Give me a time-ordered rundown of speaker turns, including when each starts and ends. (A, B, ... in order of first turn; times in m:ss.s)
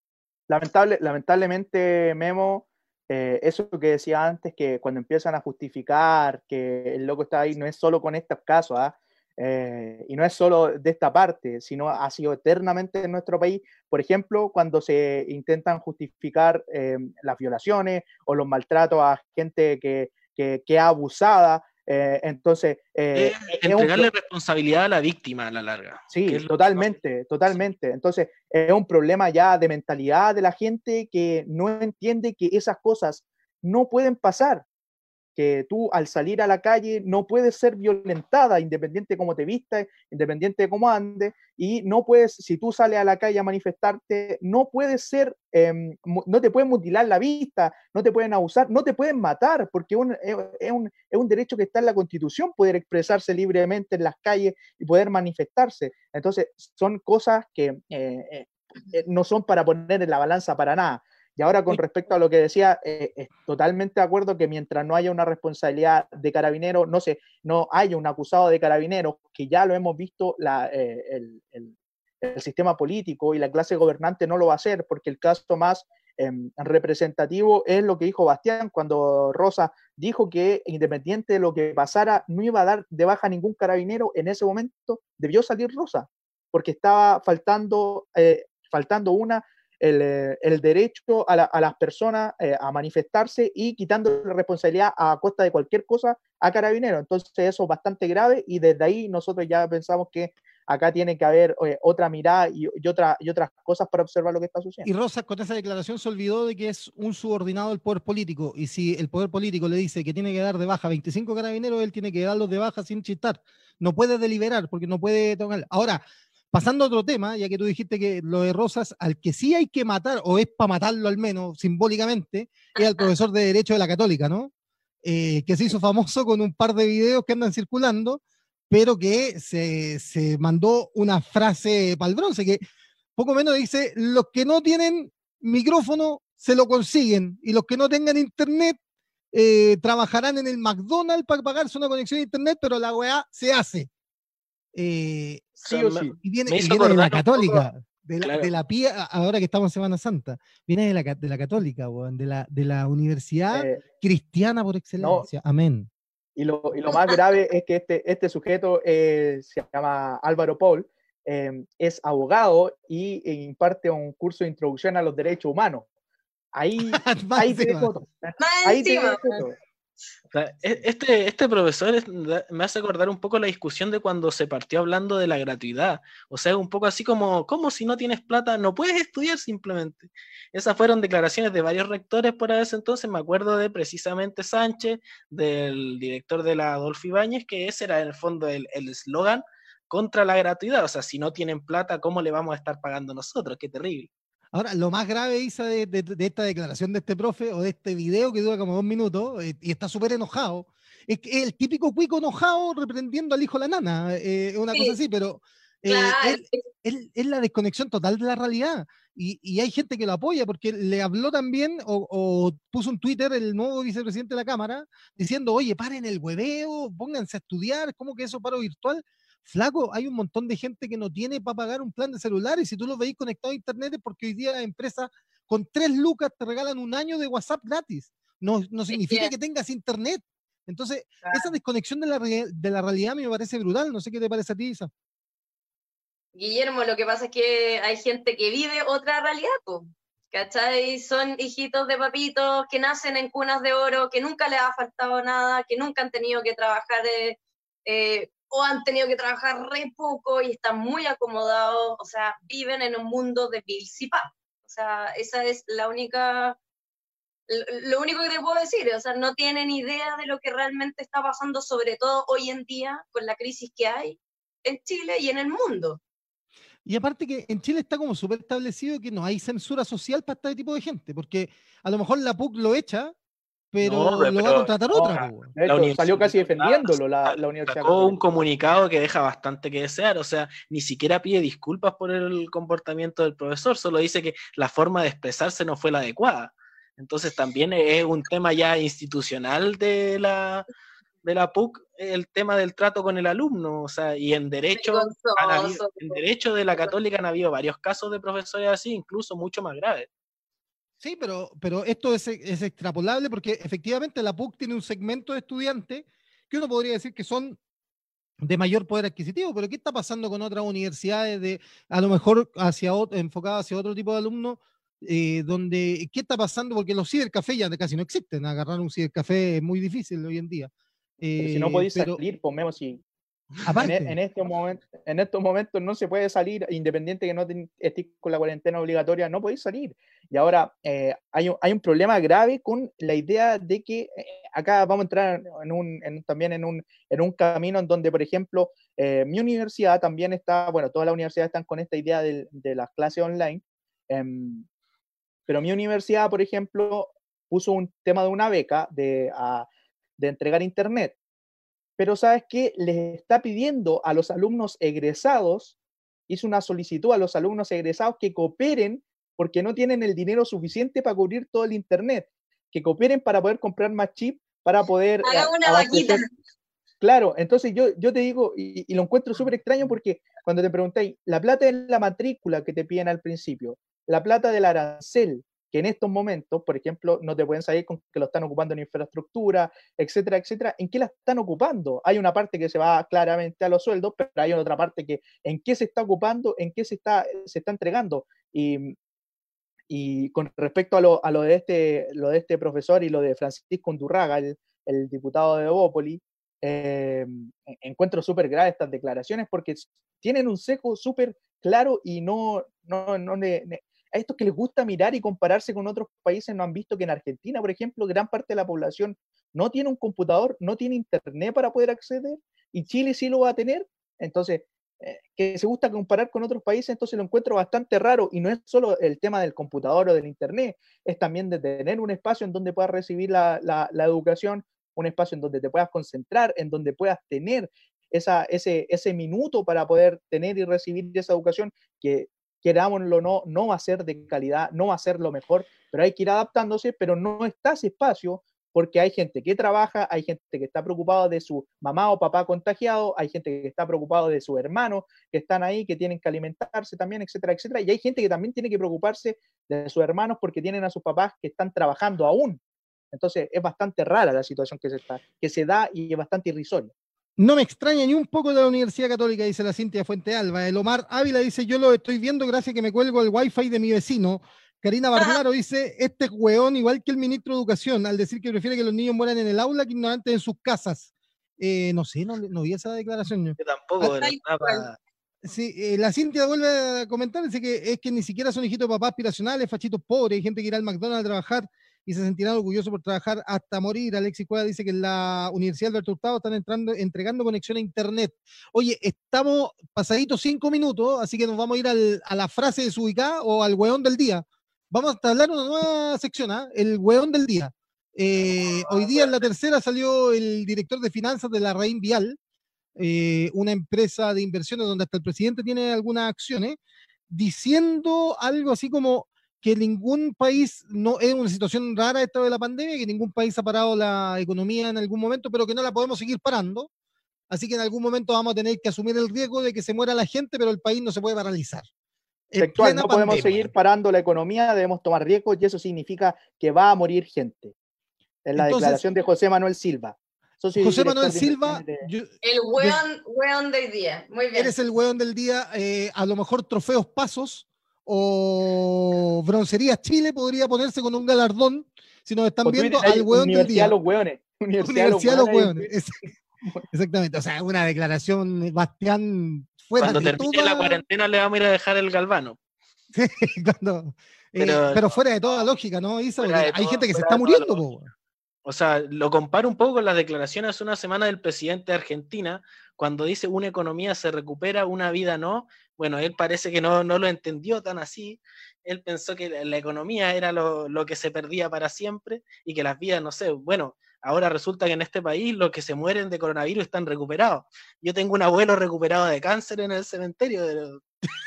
0:00.5-0:24.1 A
0:23.1-0:26.9 B
0:26.1-0:34.6 A
0:35.4-1:44.9 A
1:44.8-2:04.5 C
2:05.0-2:12.6 C
2:13.2-2:18.8 C
2:19.3-2:23.9 C
2:24.7-2:25.5 C
2:25.6-2:26.2 A
2:25.7-2:27.7 B
2:26.2-2:35.9 C
2:28.2-2:28.5 B
2:33.5-2:33.8 A
2:35.0-2:35.3 A
2:36.4-2:45.9 A
2:46.5-2:49.6 A
2:46.8-2:47.9 C
2:48.4-2:49.3 D
2:50.3-3:14.1 B
3:14.5-3:54.9 C
3:25.9-3:26.6 D
3:48.9-3:49.3 D
3:51.2-3:51.5 D
3:56.3-4:16.6 D
4:17.5-4:26.0 D
4:26.9-4:33.1 C
4:33.7-4:35.5 C
4:33.8-4:50.7 B
4:34.9-4:38.4 A
4:51.2-5:00.1 B
4:54.7-4:56.2 D
5:01.0-5:07.6 C
5:08.4-5:22.2 C
5:21.4-5:23.0 A
5:23.6-5:24.2 C
5:23.8-5:44.6 A
5:45.5-5:51.2 A
5:52.0-5:55.7 A
5:56.3-6:06.3 A
6:05.2-6:06.2 D
6:07.0-6:28.9 A
6:29.9-7:32.6 A
7:33.1-7:36.9 A
7:37.4-7:53.6 C
7:53.6-7:55.0 B
7:54.0-7:54.9 D
7:55.4-8:22.4 C
8:23.0-8:26.8 C
8:27.3-8:36.9 C
8:37.5-8:41.9 C
8:42.5-8:43.7 C
8:42.6-8:47.7 A
8:48.4-8:52.1 A
8:48.6-8:49.0 C
8:50.7-8:53.0 C
8:52.4-8:54.7 D
8:54.5-9:03.9 C
9:02.6-9:05.9 A
9:04.8-9:06.2 C
9:06.9-9:11.0 C
9:10.0-9:12.6 B
9:13.1-9:18.1 C
9:14.6-9:15.1 B
9:16.4-9:17.8 B
9:18.6-9:41.0 B